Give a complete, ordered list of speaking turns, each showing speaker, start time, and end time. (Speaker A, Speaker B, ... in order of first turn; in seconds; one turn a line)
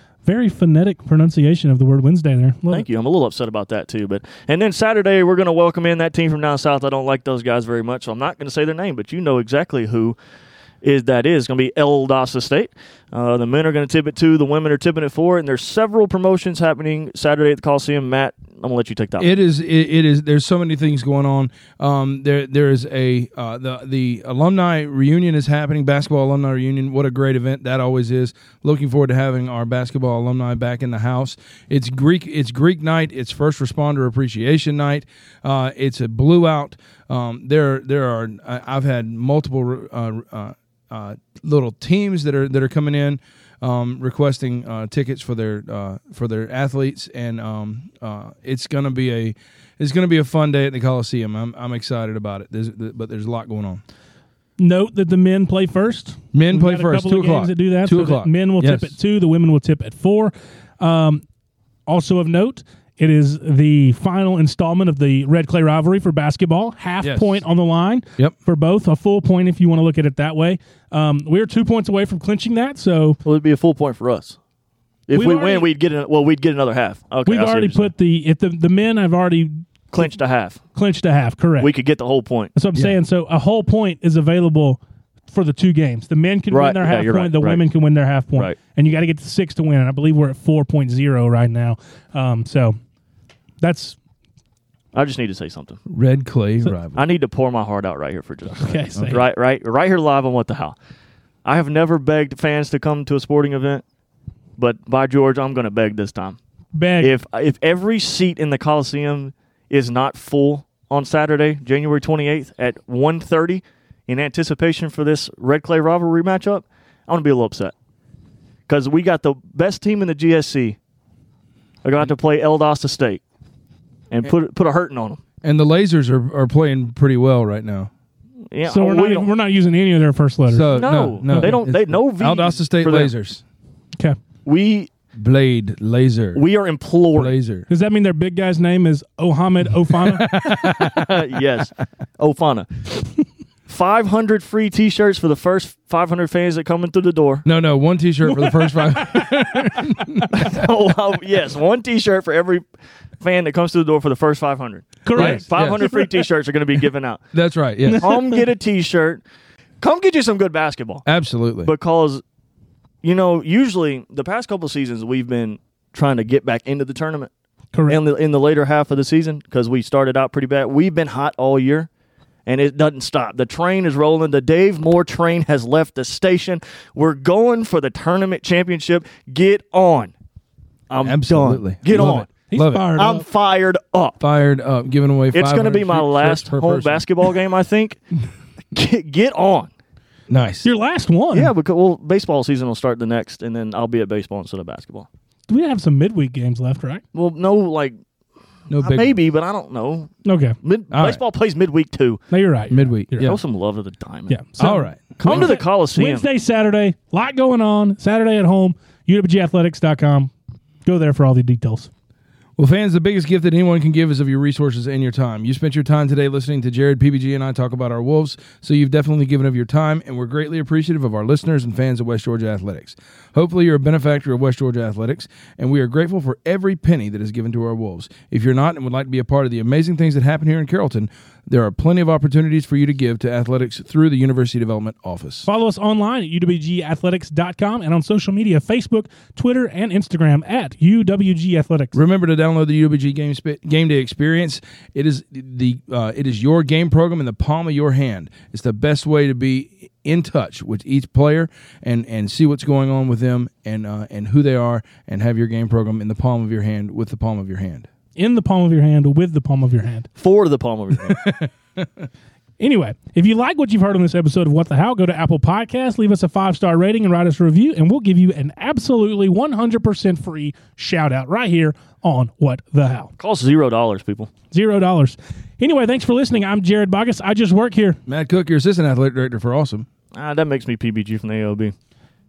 Speaker A: 0.2-2.9
Speaker B: 2.7-10.2
Speaker B: 10.8-19.3
Speaker C: 19.2-53.8
Speaker A: 54.6-61.2
Speaker C: 56.3-58.9
Speaker A: 61.9-73.2
Speaker C: 67.0-67.4
Speaker B: 73.2-74.4
Speaker B: 75.1-77.9
Speaker A: 75.1-75.7
Speaker A: 77.3-80.1
Speaker B: 79.9-80.6
Speaker A: 80.8-81.7
Speaker B: 81.6-82.5
Speaker A: 82.5-84.8
Speaker A: 85.3-92.8
Speaker B: 86.5-87.6
Speaker A: 93.6-94.0
Speaker B: 94.9-95.8
Speaker C: 95.9-97.0
Speaker B: 97.0-100.8
Speaker A: 98.6-99.2
Speaker B: 101.5-103.8
Speaker B: 104.6-106.4
Speaker A: 106.7-107.1
Speaker B: 107.0-117.7
Speaker B: 118.7-120.8
Speaker B: 121.8-123.2
Speaker B: 124.1-125.2
Speaker C: 125.4-127.9
Speaker B: 128.5-129.3
Speaker A: 128.7-130.8
Speaker C: 130.5-133.4
Speaker B: 130.7-133.1
Speaker A: 131.3-131.6
Speaker B: 134.4-134.9
Speaker C: 135.2-136.4
Speaker B: 136.3-137.4
Speaker C: 137.2-137.7
Speaker A: 137.7-140.3
Speaker C: 140.0-141.2
Speaker B: 140.4-143.1
Speaker B: 143.7-147.5
Speaker C: 147.4-150.6
Speaker B: 150.3-152.6
Speaker B: 153.2-157.2
Speaker A: 155.0-156.1
Speaker C: 155.1-155.9
Speaker C: 157.3-158.1
Speaker A: 157.9-158.3
Speaker B: 157.9-159.2
Speaker B: 159.8-161.1
Speaker C: 161.1-161.7
Speaker B: 161.7-162.2
Speaker B: 163.0-167.3
Speaker B: 167.9-171.9
Speaker B: 172.5-180.1
Speaker B: 180.9-182.3
Speaker C: 181.0-182.9
Speaker A: 181.9-183.2
Speaker B: 183.0-184.2
Speaker C: 184.2-187.1
Speaker B: 185.3-188.0
Speaker B: 188.7-189.7
Speaker C: 190.3-190.7
Speaker A: 190.6-191.5
Speaker B: 191.3-195.1
Speaker A: 195.5-197.0
Speaker B: 197.1-198.0
Speaker C: 198.7-199.1
Speaker B: 198.8-202.2
Speaker A: 200.2-200.6
Speaker C: 200.9-201.2
Speaker A: 202.3-203.3
Speaker C: 202.7-203.4
Speaker B: 203.2-206.2
Speaker A: 204.3-210.3
Speaker C: 204.6-205.5
Speaker A: 210.8-211.9
Speaker C: 212.6-235.5
Speaker A: 235.4-242.0
Speaker C: 241.9-257.9
Speaker A: 258.2-260.1
Speaker B: 260.2-261.3
Speaker C: 261.0-262.0
Speaker A: 262.6-273.1
Speaker B: 273.2-274.3
Speaker A: 274.5-278.0
Speaker C: 278.1-279.9
Speaker B: 280.1-281.7